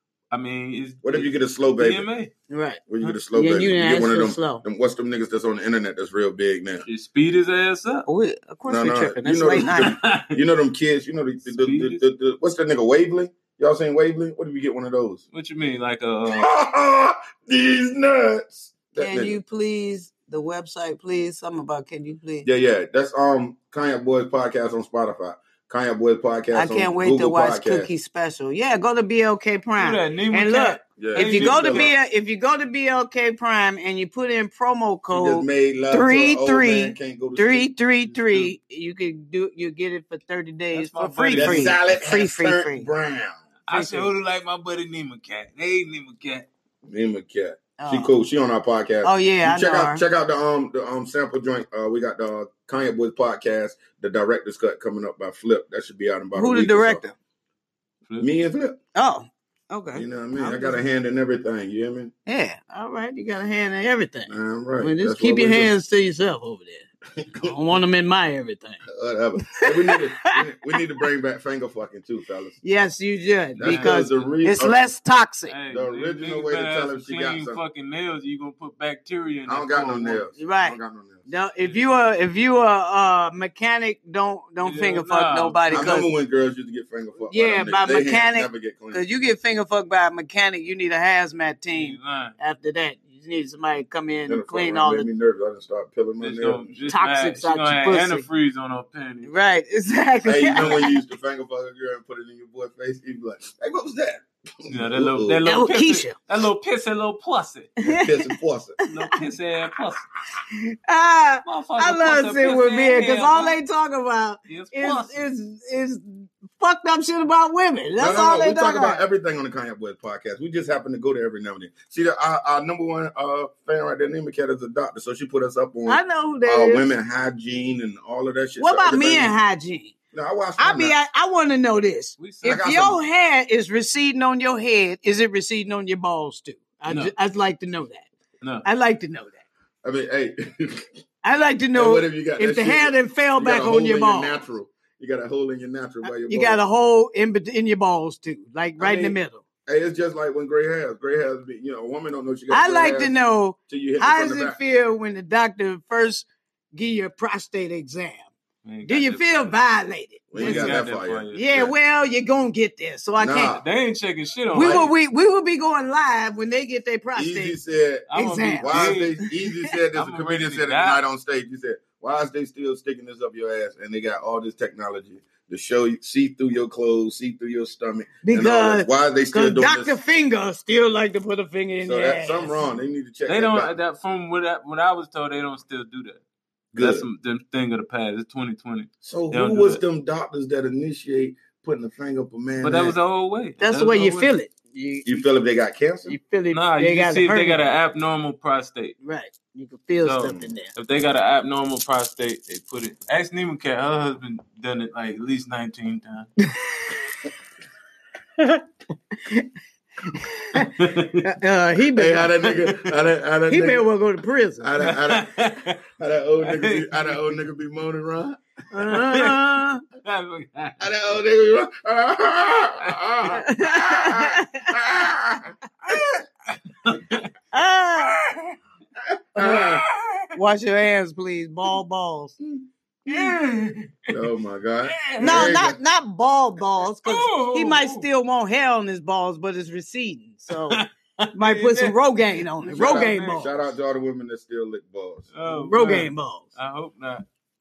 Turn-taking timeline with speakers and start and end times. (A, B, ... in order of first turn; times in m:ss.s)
0:00.3-0:02.3 A
0:01.0-0:02.0 B
0:02.5-0:04.6 C
0:02.9-0:06.8 B
0:06.8-0:08.0 A
0:08.0-0:10.0 C
0:08.7-0:15.2 B
0:09.6-0:10.4 A
0:11.4-0:12.0 A
0:15.3-0:16.5 A
0:16.3-0:19.4 B
0:19.0-0:22.5 C
0:22.4-0:27.9 B
0:26.5-0:42.9 C
0:29.8-0:31.9 A
0:31.0-0:31.9 B
0:35.1-0:37.7 B
0:38.1-0:38.5 A
0:40.7-0:41.8 A
0:41.3-0:43.4 B
0:43.7-0:46.5 A
0:43.7-0:44.1 C
0:46.8-0:57.0 B
0:47.8-0:48.1 C
0:49.0-0:50.0 C
0:56.3-0:57.1 C
0:58.2-0:58.8 B
0:58.9-1:00.8 C
0:59.9-1:02.1 B
1:02.3-1:06.8 C
1:04.3-1:05.7 B
1:07.2-1:07.5 B
1:07.4-1:08.8 C
1:08.9-1:12.6 B
1:09.6-1:10.4 C
1:12.6-1:15.5 C
1:13.6-1:14.9 B
1:13.6-1:14.3 A
1:15.5-1:20.2 A
1:15.7-1:17.6 B
1:19.5-1:21.2 B
1:20.4-1:26.1 C
1:21.6-1:21.8 A
1:24.6-1:26.0 A
1:25.7-1:29.0 B
1:27.3-1:35.1 C
1:31.7-1:32.3 A
1:34.3-1:36.7 B
1:36.2-1:39.3 A
1:36.9-1:38.2 C
1:39.2-1:41.0 C
1:40.2-1:45.4 B
1:44.7-1:47.7 A
1:45.4-1:46.2 C
1:47.8-1:48.3 C
1:47.8-1:48.8 B
1:48.9-1:50.0 A
1:48.9-1:49.2 C
1:50.5-1:59.0 C
1:51.4-1:53.6 A
1:54.5-1:55.2 A
1:58.0-2:09.4 B
2:05.9-2:06.8 C
2:08.6-2:09.9 C
2:10.1-2:11.0 B
2:10.6-2:18.1 C
2:12.2-2:12.6 A
2:12.4-2:13.0 B
2:16.9-2:17.1 A
2:18.6-2:19.4 C
2:19.8-2:20.9 B
2:21.2-2:24.4 C
2:21.7-2:26.6 B
2:26.0-2:29.4 C
2:28.8-2:33.1 B
2:32.5-2:38.3 C
2:33.7-2:34.6 B
2:38.6-2:39.6 A
2:38.8-2:40.8 C
2:40.3-2:41.7 B
2:40.4-2:41.6 A
2:41.3-2:43.6 C
2:43.2-2:43.6 B
2:43.5-2:44.9 A
2:44.5-2:47.6 C
2:47.2-2:48.1 B
2:48.1-2:49.2 A
2:48.1-2:49.5 C
2:48.6-3:00.0 B
2:50.0-2:51.0 A
2:58.2-3:02.7 C
3:01.8-3:03.8 B
3:03.3-3:06.2 A
3:06.7-3:07.0 B
3:06.8-3:09.8 A
3:09.0-3:13.0 B
3:12.6-3:14.3 A
3:13.6-3:15.2 C
3:15.0-3:16.2 B
3:16.0-3:17.6 C
3:16.5-3:19.0 A
3:19.0-3:20.7 C
3:20.0-3:26.3 A
3:26.4-3:27.1 C
3:28.4-3:29.5 C
3:30.0-3:32.4 C
3:30.6-3:31.3 A
3:31.9-3:33.8 B
3:33.5-3:34.7 C
3:34.6-3:38.4 B
3:34.8-3:35.8 A
3:36.4-3:37.2 A
3:38.7-3:39.8 C
3:38.9-3:39.4 A
3:40.0-3:40.8 A
3:40.8-3:45.5 B
3:43.3-3:44.7 C
3:46.8-3:47.3 A
3:47.5-3:48.5 C
3:49.4-3:49.8 C
3:49.4-3:49.8 B
3:49.4-3:50.3 A
3:50.3-3:52.4 C
3:53.0-3:53.4 C
3:53.1-3:54.1 A
3:54.1-3:55.8 B
3:55.0-3:55.6 A
3:55.2-4:00.8 C
3:57.0-3:58.1 A
4:00.5-4:02.0 A
4:01.3-4:03.5 C
4:02.6-4:03.5 A
4:02.7-4:05.3 B
4:05.3-4:07.2 A
4:05.5-4:06.5 C